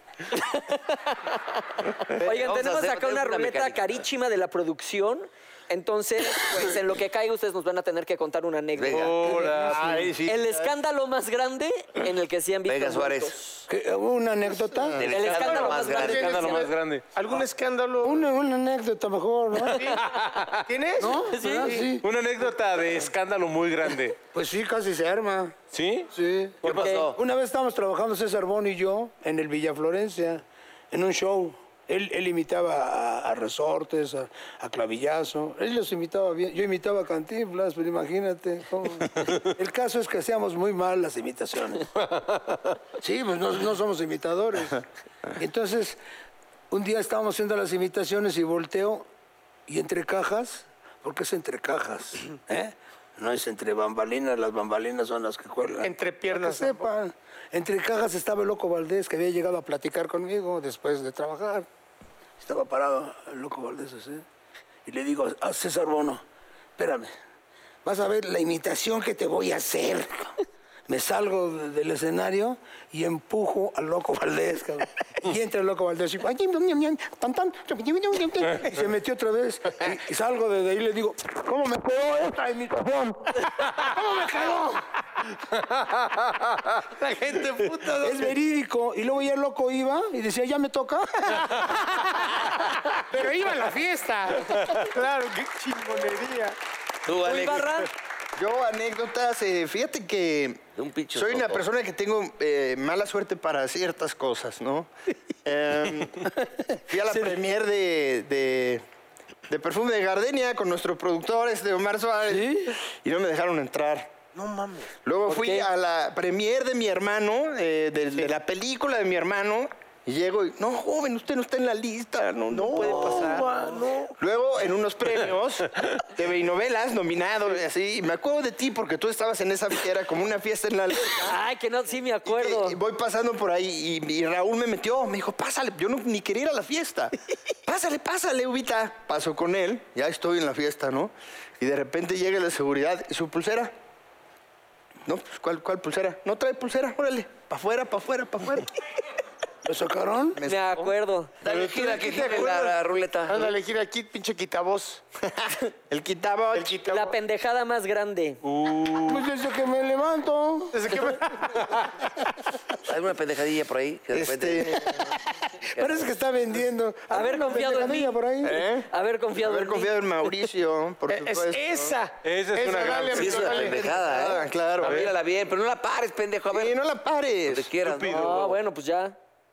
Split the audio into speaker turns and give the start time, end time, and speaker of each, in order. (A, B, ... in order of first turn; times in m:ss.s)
0:00.3-0:09.5 A
0:02.2-0:03.9 B
0:08.8-0:09.1 B
0:08.9-0:10.2 C
0:09.4-0:10.7 D
0:10.2-0:13.6 A
0:12.7-0:13.4 B
0:13.7-0:15.0 E
0:14.7-0:15.1 D
0:15.0-0:16.7 B
0:15.1-0:16.7 A
0:15.3-0:18.2 F
0:16.1-0:17.1 C
0:18.0-0:20.0 E
0:20.0-0:20.7 C
0:20.6-0:21.9 F
0:21.0-0:22.0 E
0:21.2-0:21.8 A
0:22.0-0:24.2 C
0:24.3-0:25.6 E
0:25.7-0:26.1 C
0:26.1-0:26.6 E
0:26.6-0:26.9 C
0:26.6-0:27.2 B
0:26.6-0:27.1 A
0:27.1-0:41.9 E
0:42.1-0:42.8 C
0:43.0-0:44.8 E
0:45.4-0:46.0 E
0:46.7-0:49.1 E
0:49.7-1:01.7 E
0:55.8-0:56.9 F
1:02.4-1:04.2 E
1:04.9-1:06.2 E
1:06.8-1:07.1 E
1:07.8-1:10.4 E
1:10.9-1:24.8 E
1:25.6-1:26.7 C
1:26.8-1:28.4 F
1:28.0-1:32.4 E
1:33.1-1:34.8 E
1:33.2-1:33.5 F
1:34.4-1:36.6 F
1:37.1-1:37.8 B
1:37.1-1:37.9 A
1:38.4-1:44.9 D
1:40.8-1:41.6 B
1:45.4-1:48.8 D
1:49.5-1:54.1 D
1:52.3-1:52.8 E
1:54.4-1:54.9 F
1:55.0-2:11.4 D
1:55.3-1:55.7 A
2:02.5-2:04.2 F
2:11.1-2:12.8 A
2:12.2-2:17.2 D
2:17.7-2:23.8 D
2:25.1-2:28.7 D
2:29.6-2:30.4 E
2:30.4-2:30.9 D
2:30.4-2:31.3 A
2:31.4-2:33.4 B
2:31.4-2:32.7 D
2:33.3-2:35.0 F
2:35.3-2:36.8 D
2:36.5-2:37.2 F
2:36.9-2:38.4 A
2:38.4-2:39.3 C
2:39.1-2:41.2 E
2:40.7-2:41.7 F
2:42.8-2:45.0 B
2:44.1-2:45.0 D
2:45.6-2:46.1 B
2:45.8-2:48.6 E
2:47.1-2:48.2 A
2:48.4-2:52.0 D
2:48.9-2:49.9 A
2:51.1-2:54.0 F
2:52.2-2:53.5 C
2:53.2-2:56.8 B
2:53.3-2:55.1 D
2:54.8-2:55.1 C
2:56.5-2:57.8 D
2:57.5-2:58.6 B
2:57.8-2:58.5 C
2:58.1-2:59.2 A